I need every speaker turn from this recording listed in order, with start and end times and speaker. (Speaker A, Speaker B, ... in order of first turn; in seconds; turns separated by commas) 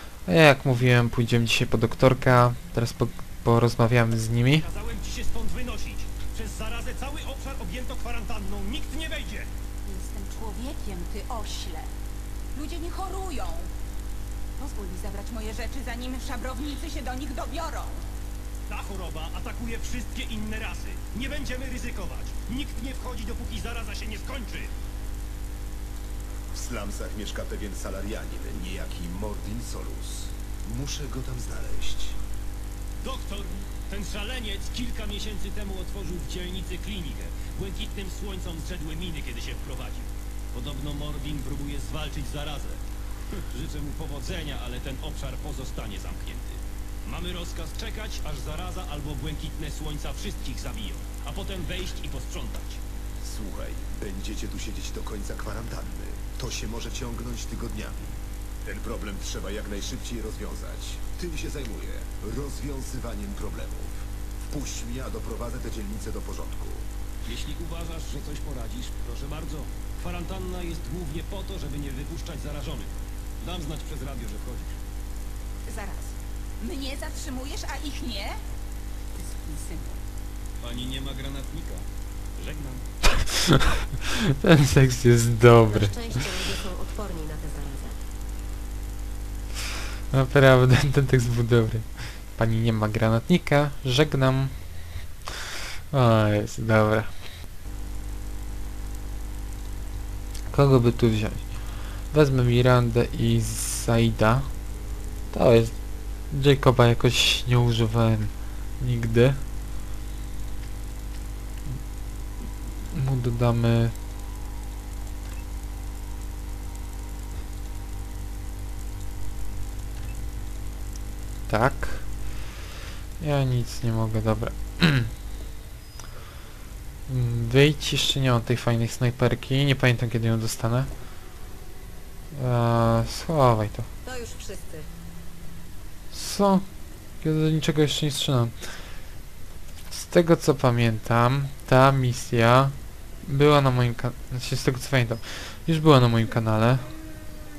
Speaker A: 0.2-4.7, Speaker B: 4.6-9.5, Speaker C: 9.8-11.9, Speaker C: 12.5-13.7, Speaker C: 14.6-18.0, Speaker B: 18.7-24.7, Speaker D: 26.5-32.2, Speaker B: 33.0-42.8, Speaker B: 43.3-52.8, Speaker D: 53.2-66.9, Speaker B: 67.3-72.9, Speaker B: 73.4-74.8, Speaker C: 75.7-78.4, Speaker C: 79.2-80.0, Speaker B: 80.6-81.8, Speaker B: 82.4-82.8, Speaker A: 83.1-86.0, Speaker E: 85.7-88.0, Speaker A: 90.1-94.5, Speaker A: 95.9-97.1, Speaker A: 100.5-101.5, Speaker A: 102.1-104.5, Speaker A: 105.3-105.7, Speaker A: 106.3-109.4, Speaker A: 112.9-113.9, Speaker A: 121.5-122.1, Speaker A: 123.2-125.1, Speaker A: 127.1-130.9, Speaker A: 132.3-133.9, Speaker E: 134.0-134.9, Speaker A: 136.1-136.7, Speaker A: 137.2-138.5, Speaker A: 139.9-146.8